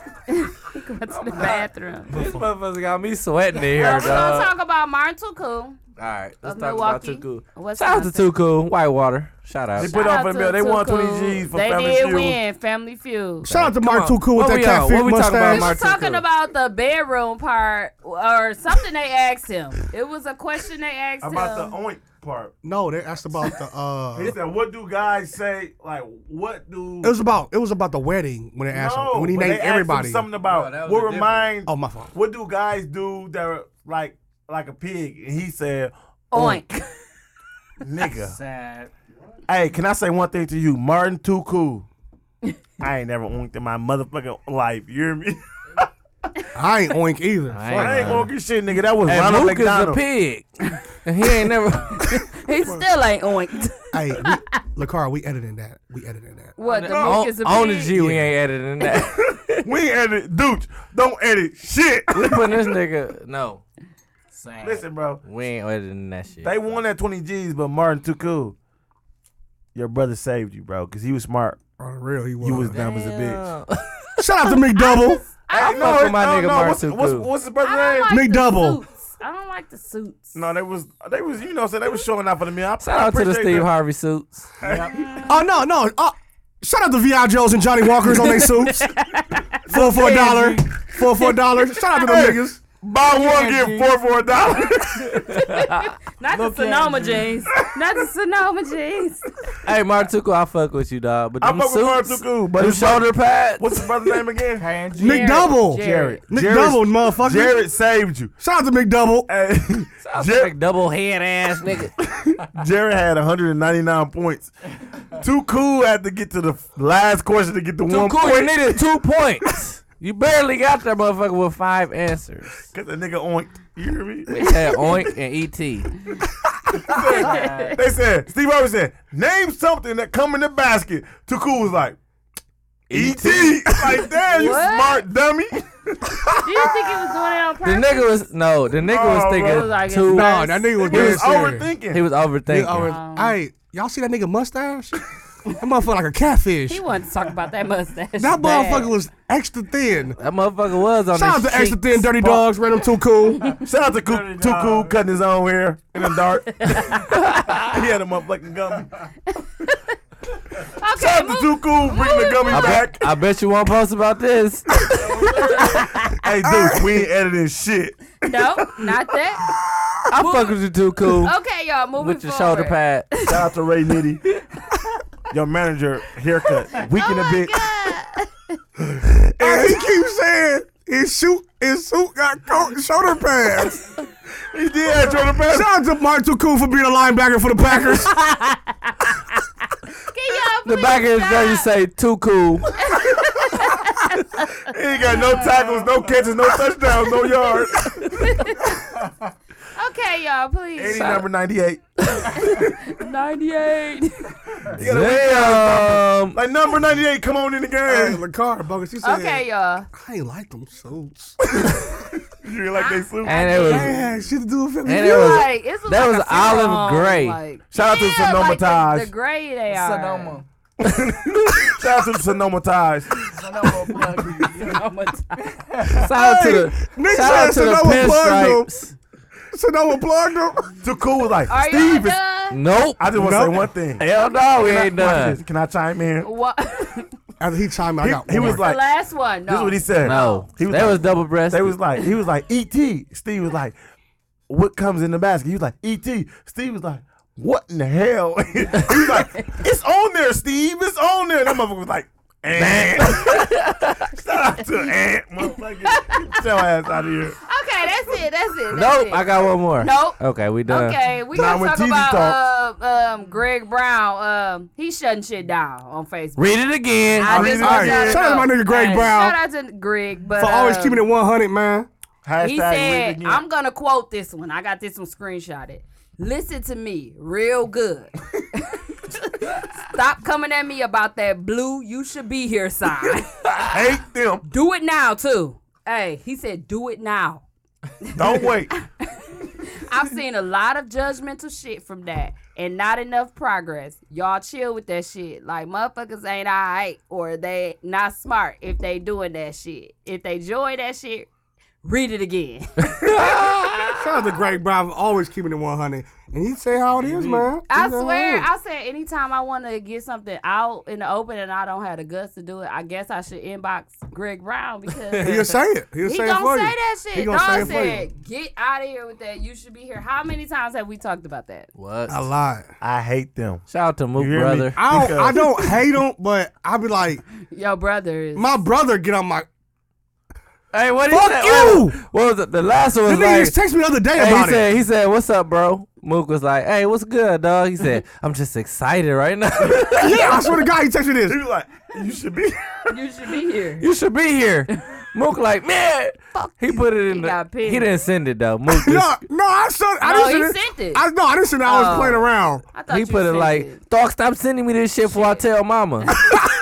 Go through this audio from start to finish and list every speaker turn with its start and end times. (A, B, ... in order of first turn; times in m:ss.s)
0:00.3-0:02.1 A
0:01.3-0:04.5 B
0:03.8-0:05.8 A
0:06.0-0:09.9 B
0:06.4-0:08.3 A
0:09.8-0:12.4 C
0:09.8-0:13.5 A
0:13.4-0:15.8 D
0:13.5-0:16.2 B
0:15.5-0:21.7 A
0:21.2-0:22.5 C
0:22.6-0:24.4 D
0:24.1-0:27.1 C
0:27.0-0:30.2 D
0:28.7-0:36.6 C
0:30.4-0:31.5 B
0:31.7-0:32.1 D
0:36.3-0:36.8 A
0:37.8-0:38.4 C
0:38.2-0:38.9 E
0:39.5-0:41.8 C
0:42.8-0:45.8 C
0:46.5-0:48.3 D
0:47.5-0:48.3 B
0:47.8-0:50.0 C
0:49.0-0:52.1 B
0:52.0-0:54.4 A
0:53.9-0:56.5 D
0:56.6-0:57.9 A
0:56.6-0:59.6 B
0:56.9-0:57.3 C
0:59.6-1:02.5 C
1:02.1-1:03.6 B
1:04.3-1:04.9 E
1:04.6-1:05.2 C
1:05.2-1:06.6 B
1:06.4-1:08.6 C
1:09.7-1:11.6 C
1:11.8-1:12.8 D
1:12.4-1:13.4 C
1:12.7-1:14.2 B
1:14.2-1:15.2 D
1:14.7-1:16.1 A
1:15.5-1:18.1 C
1:15.6-1:17.3 B
1:17.6-1:20.4 A
1:18.1-1:18.8 D
1:20.3-1:23.7 C
1:22.8-1:24.5 B
1:24.6-1:25.2 C
1:24.6-1:25.0 E
1:25.0-1:25.3 A
1:25.2-1:28.9 D
1:28.1-1:31.6 A
1:29.7-1:32.6 D
1:29.8-1:30.8 E
1:31.9-1:35.3 C
1:33.0-1:34.0 E
1:35.4-1:39.2 A
1:36.3-1:37.3 E
1:39.6-1:44.2 B
1:41.4-1:44.7 C
1:44.6-1:45.4 E
1:44.9-1:46.2 A
1:45.0-1:47.6 D
1:45.7-1:48.3 C
1:48.4-1:49.3 D
1:49.3-1:50.5 C
1:50.0-1:51.9 B
1:52.5-1:54.5 C
1:55.2-1:58.8 C
1:57.9-2:02.7 B
2:02.7-2:04.5 C
2:04.3-2:05.9 B
2:06.7-2:12.0 C
2:07.0-2:07.7 A
2:07.2-2:07.8 E
2:12.9-2:13.7 B
2:12.9-2:16.2 C
2:14.3-2:15.0 A
2:16.4-2:18.1 A
2:17.6-2:21.0 B
2:18.8-2:19.7 C
2:19.4-2:21.2 A
2:20.1-2:21.7 D
2:20.8-2:22.0 C
2:21.9-2:22.9 B
2:22.5-2:25.0 D
2:22.8-2:23.4 A
2:25.6-2:26.8 D
2:26.7-2:28.9 A
2:28.2-2:30.2 D
2:30.2-2:32.2 B
2:31.1-2:33.5 D
2:33.6-2:37.1 C
2:34.1-2:34.9 E
2:36.6-2:37.0 A
2:37.2-2:37.6 B
2:37.6-2:39.0 C
2:40.8-2:42.8 A
2:40.9-2:43.1 C
2:42.5-2:45.0 B
2:45.0-2:48.4 C
2:45.4-2:46.1 A
2:46.4-2:47.1 D
2:48.3-2:49.5 A
2:50.1-2:50.6 A
2:50.2-2:51.3 B
2:51.2-2:53.3 A
2:52.0-2:53.1 B
2:53.2-2:54.2 C
2:55.3-2:57.7 C
2:57.0-2:58.6 A
2:58.9-2:59.8 C
2:59.4-3:03.8 D
3:04.5-3:05.7 C
3:05.4-3:08.3 D
3:08.2-3:08.5 A
3:10.1-3:11.7 A
3:10.6-3:12.7 B
3:12.8-3:15.5 A
3:14.7-3:18.1 C
3:18.1-3:18.8 A
3:19.0-3:19.2 E
3:19.7-3:21.2 A
3:20.8-3:22.6 C
3:20.9-3:21.2 B
3:22.3-3:24.4 A
3:24.7-3:28.2 C
3:24.8-3:26.4 B
3:27.8-3:31.8 D
3:29.0-3:29.9 A
3:32.4-3:33.6 C
3:32.8-3:34.0 A
3:33.2-3:34.0 B
3:33.6-3:35.4 D
3:34.8-3:37.4 B
3:34.9-3:40.4 A
3:37.7-3:39.1 C
3:39.7-3:40.4 E
3:40.8-3:43.4 C
3:43.2-3:44.8 E
3:44.6-3:45.5 A
3:45.7-3:46.1 E
3:45.9-3:48.9 B
3:46.1-3:48.7 D
3:49.5-3:50.7 D
3:50.8-3:52.2 C
3:51.5-3:52.6 A
3:52.5-3:53.1 B
3:53.0-3:54.0 C
3:53.1-3:53.7 D
3:54.0-3:55.4 B
3:54.6-3:56.3 C
3:56.2-3:57.1 A
3:57.4-3:58.6 D
3:58.0-3:58.9 C
3:58.3-4:00.5 A
3:59.5-4:03.8 C
4:00.0-4:01.8 B
4:04.5-4:13.5 C
4:12.5-4:14.0 B
4:14.1-4:17.4 C
4:15.9-4:16.3 A
4:17.5-4:26.6 A
4:18.7-4:21.0 B
4:21.3-4:22.4 C
4:26.4-4:27.5 B
4:27.2-4:31.0 A
4:27.2-4:28.4 C
4:27.3-4:29.4 D
4:30.4-4:31.9 D
4:32.2-4:33.4 C
4:32.4-4:43.4 A
4:43.6-4:44.4 C
4:44.5-4:47.4 A
4:48.0-4:48.5 A
4:48.2-4:48.7 C
4:49.4-5:01.3 A
5:01.8-5:03.4 A
5:02.9-5:04.0 B
5:04.0-5:08.5 D
5:07.7-5:15.4 A
5:15.1-5:15.4 B
5:15.2-5:18.1 D
5:16.0-5:21.7 A
5:21.8-5:22.3 B
5:22.1-5:22.7 D
5:22.8-5:23.6 C
5:23.7-5:24.8 B
5:24.2-5:25.5 C
5:24.8-5:27.2 D
5:27.4-5:28.6 A
5:28.3-5:29.5 D
5:30.7-5:33.5 B
5:31.1-5:32.0 D
5:33.0-5:34.7 D
5:34.1-5:40.4 B
5:39.9-5:41.4 D
5:41.2-5:42.9 C
5:42.9-5:43.8 A
5:43.8-5:49.1 B
5:46.3-5:47.9 A
5:48.7-5:52.6 D
5:50.0-5:51.0 A
5:51.6-5:53.8 A
5:52.9-5:56.1 B
5:55.0-5:55.4 A